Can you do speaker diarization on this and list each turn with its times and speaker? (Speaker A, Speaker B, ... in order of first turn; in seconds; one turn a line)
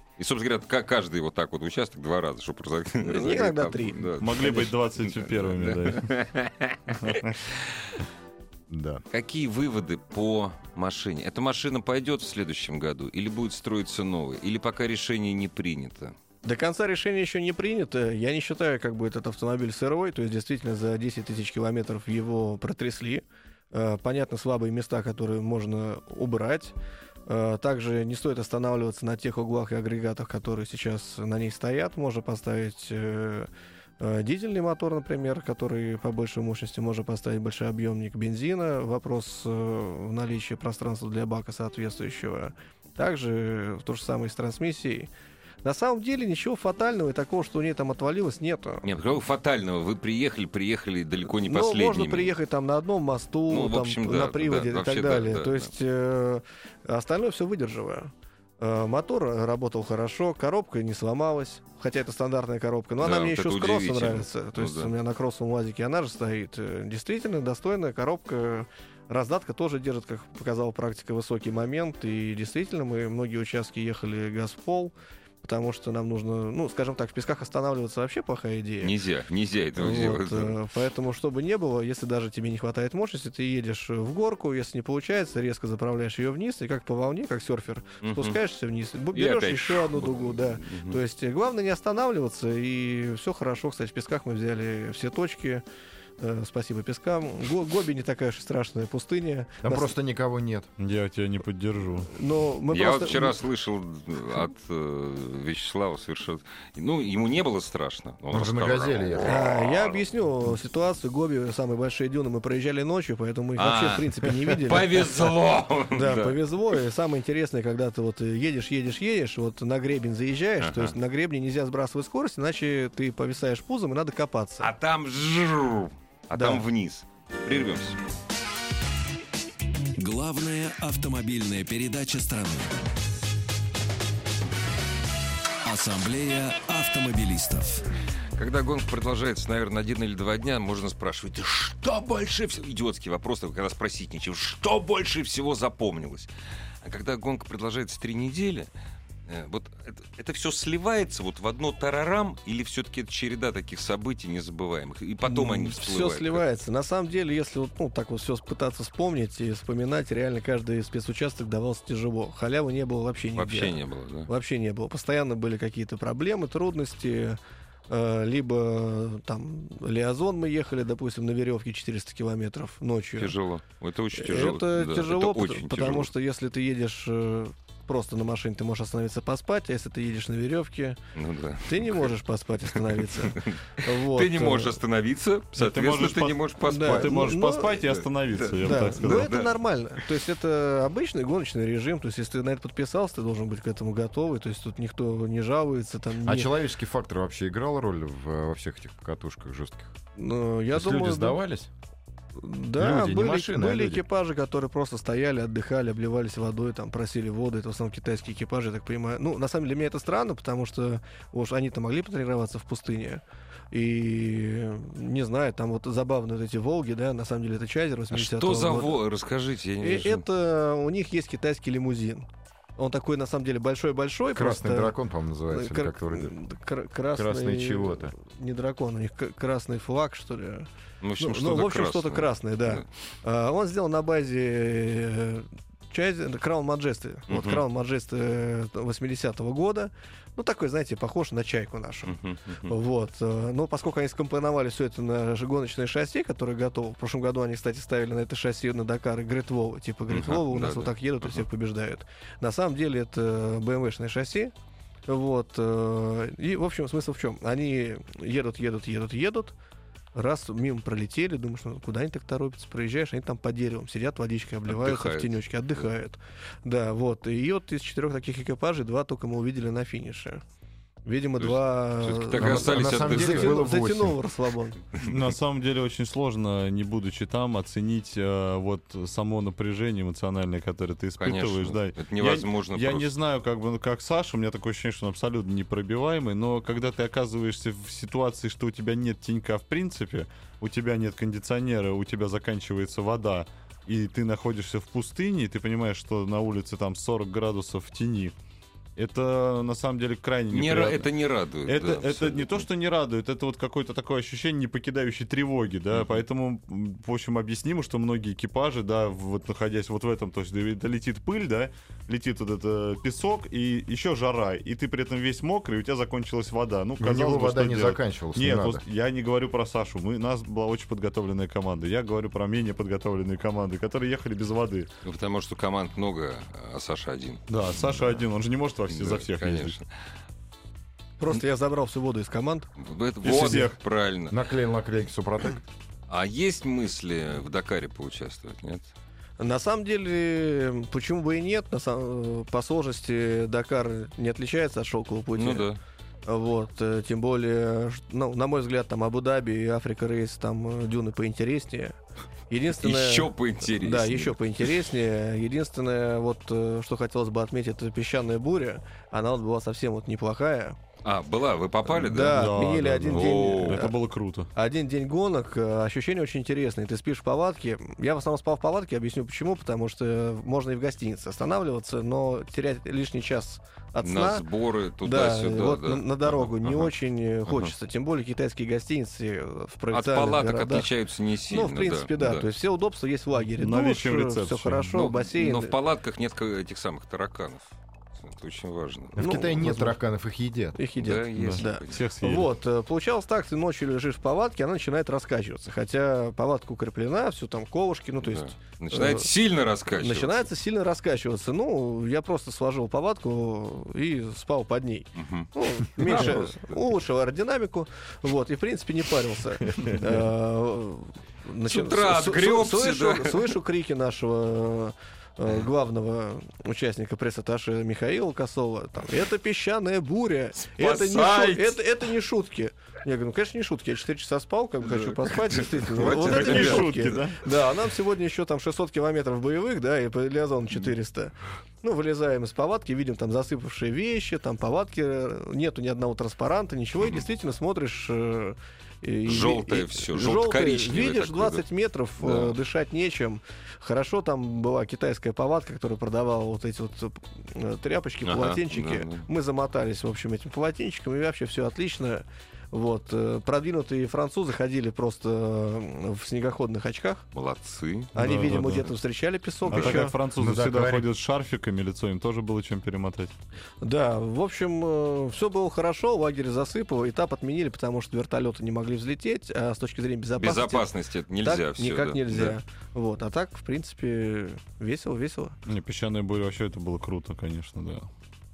Speaker A: 0.2-8.0
Speaker B: 3.0-4.5
Speaker C: 4.2-6.1
Speaker C: 6.9-7.4
Speaker D: 8.7-9.0
Speaker A: 9.1-16.1
Speaker B: 16.4-26.7
Speaker B: 27.3-33.5
Speaker B: 34.0-45.1
Speaker B: 45.6-48.9
Speaker A: 48.8-52.3
Speaker B: 51.4-78.9
Speaker A: 53.5-55.7
Speaker A: 63.0-64.9
Speaker A: 78.8-80.6
Speaker B: 79.8-95.6
Speaker A: 88.0-88.4
Speaker A: 89.1-91.0
Speaker B: 96.2-99.9
Speaker D: 99.6-100.7
Speaker C: 100.8-102.1
Speaker B: 102.1-103.4
Speaker A: 102.7-110.0
Speaker D: 108.3-109.5
Speaker B: 109.2-115.3
Speaker A: 113.6-116.4
Speaker B: 115.9-124.7
Speaker A: 120.6-121.0
Speaker A: 124.6-128.0
Speaker B: 126.3-126.7
Speaker E: 130.0-132.8
Speaker E: 135.6-137.8
Speaker A: 138.4-146.3
Speaker A: 146.8-148.7
Speaker A: 149.3-156.4
Speaker B: 155.3-163.8
Speaker A: 163.4-164.3
Speaker B: 164.3-167.4
Speaker B: 167.9-173.3
Speaker A: 173.2-176.1
Speaker B: 174.1-181.0
Speaker A: 181.2-182.1
Speaker B: 181.7-184.8
Speaker A: 182.8-189.5
Speaker C: 185.6-189.3
Speaker B: 186.7-187.8
Speaker B: 188.6-196.5
Speaker D: 196.2-199.9
Speaker B: 200.2-201.4
Speaker D: 200.7-201.7
Speaker B: 202.4-219.0
Speaker D: 202.8-204.0
Speaker A: 218.1-220.2
Speaker B: 219.8-224.9
Speaker D: 224.3-226.3
Speaker B: 225.5-254.5
Speaker D: 227.1-228.2
Speaker A: 231.0-232.9
Speaker A: 237.3-237.6
Speaker A: 242.1-242.7
Speaker A: 250.1-251.4
Speaker B: 255.1-259.5
Speaker B: 260.1-270.4
Speaker A: 264.7-265.4
Speaker B: 271.1-274.8
Speaker A: 271.4-273.6
Speaker D: 272.4-274.2
Speaker C: 275.0-298.3
Speaker A: 281.2-283.1
Speaker C: 299.0-301.1
Speaker A: 300.5-302.7
Speaker C: 301.7-324.9
Speaker A: 305.9-306.2
Speaker D: 317.0-318.8
Speaker A: 325.0-328.2
Speaker C: 327.5-329.8
Speaker A: 328.9-329.9
Speaker B: 331.2-332.7
Speaker A: 332.8-334.4
Speaker C: 333.2-333.8
Speaker D: 334.3-335.6
Speaker A: 336.1-338.9
Speaker B: 339.4-345.7
Speaker A: 345.4-345.8
Speaker B: 346.3-352.0
Speaker B: 352.5-360.8
Speaker A: 352.8-354.7
Speaker A: 361.0-362.5
Speaker B: 361.9-363.9
Speaker C: 362.2-364.5
Speaker A: 363.1-363.9
Speaker B: 364.5-374.4
Speaker A: 374.0-376.9
Speaker B: 375.0-380.9
Speaker A: 377.5-377.7
Speaker A: 379.9-382.5
Speaker B: 381.5-385.7
Speaker C: 383.6-384.9
Speaker A: 384.9-389.2
Speaker D: 389.2-390.8
Speaker B: 389.2-390.0
Speaker B: 390.8-399.3
Speaker A: 391.0-392.1
Speaker C: 391.4-392.5
Speaker A: 398.2-400.5
Speaker B: 399.9-457.2
Speaker A: 405.2-406.8
Speaker A: 411.7-413.6
Speaker A: 420.6-421.8
Speaker A: 424.9-427.2
Speaker C: 426.1-427.4
Speaker A: 439.3-441.6
Speaker A: 442.2-442.6
Speaker A: 448.2-449.3
Speaker A: 457.3-458.1
Speaker B: 458.1-460.1
Speaker C: 458.1-458.9
Speaker C: 459.7-463.3
Speaker D: 459.7-461.1
Speaker B: 463.8-470.9
Speaker A: 470.4-472.6
Speaker B: 471.4-475.6
Speaker C: 475.7-478.1